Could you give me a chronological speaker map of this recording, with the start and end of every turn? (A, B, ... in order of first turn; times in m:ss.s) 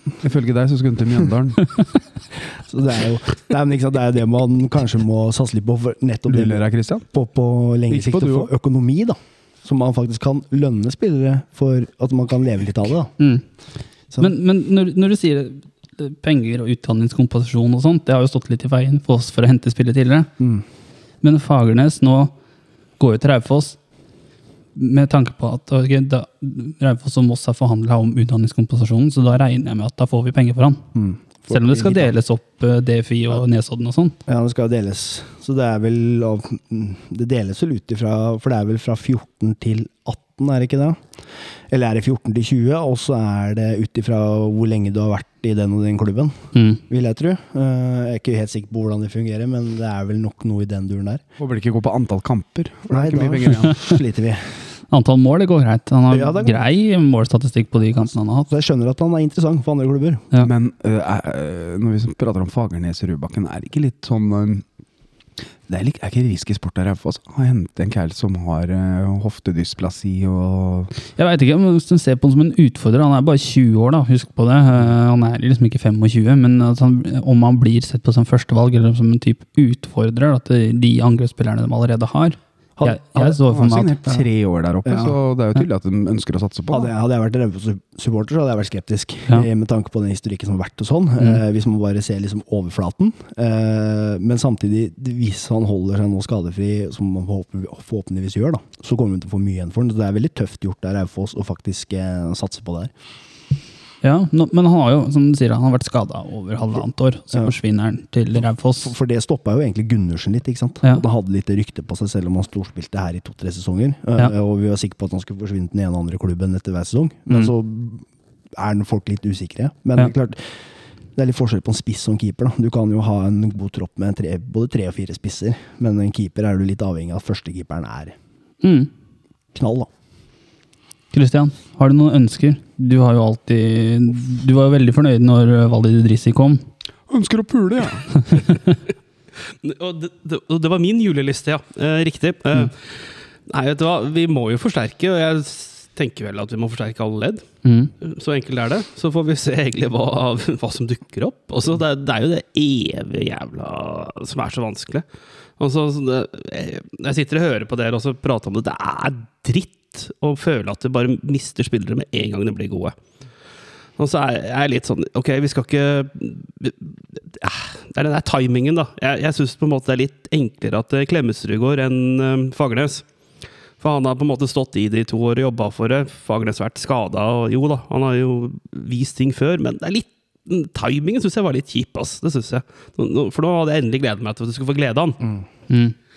0:00.2-0:01.9 A
0:02.5-0:13.1 B
0:06.3-0:07.0 A
0:07.9-0:08.5 A
0:13.2-0:13.4 C
0:14.2-0:20.3 C
0:20.4-0:20.6 B
0:21.2-0:22.3 C
0:23.0-0:23.8 C
0:24.7-0:30.8 C
0:30.9-0:32.1 B
0:31.5-0:34.2 C
0:34.2-0:51.2 B
0:46.5-0:46.8 C
0:51.4-0:53.8 A
0:52.9-0:54.7 B
0:54.9-0:58.5 C
0:56.1-0:56.6 B
0:58.0-1:00.3 B
1:00.4-1:04.6 A
1:05.7-1:10.9 A
1:11.1-1:24.2 C
1:22.8-1:23.3 B
1:23.2-1:26.9 A
1:24.8-1:25.2 B
1:26.7-1:42.9 B
1:44.0-1:48.9 C
1:48.8-2:08.1 B
2:08.6-2:08.9 C
2:09.5-2:09.9 B
2:11.1-2:16.6 C
2:17.1-2:18.4 A
2:19.6-2:35.0 D
2:27.6-2:27.9 C
2:35.6-2:43.0 D
2:44.0-2:53.1 D
2:53.8-3:05.2 D
3:05.7-3:05.9 C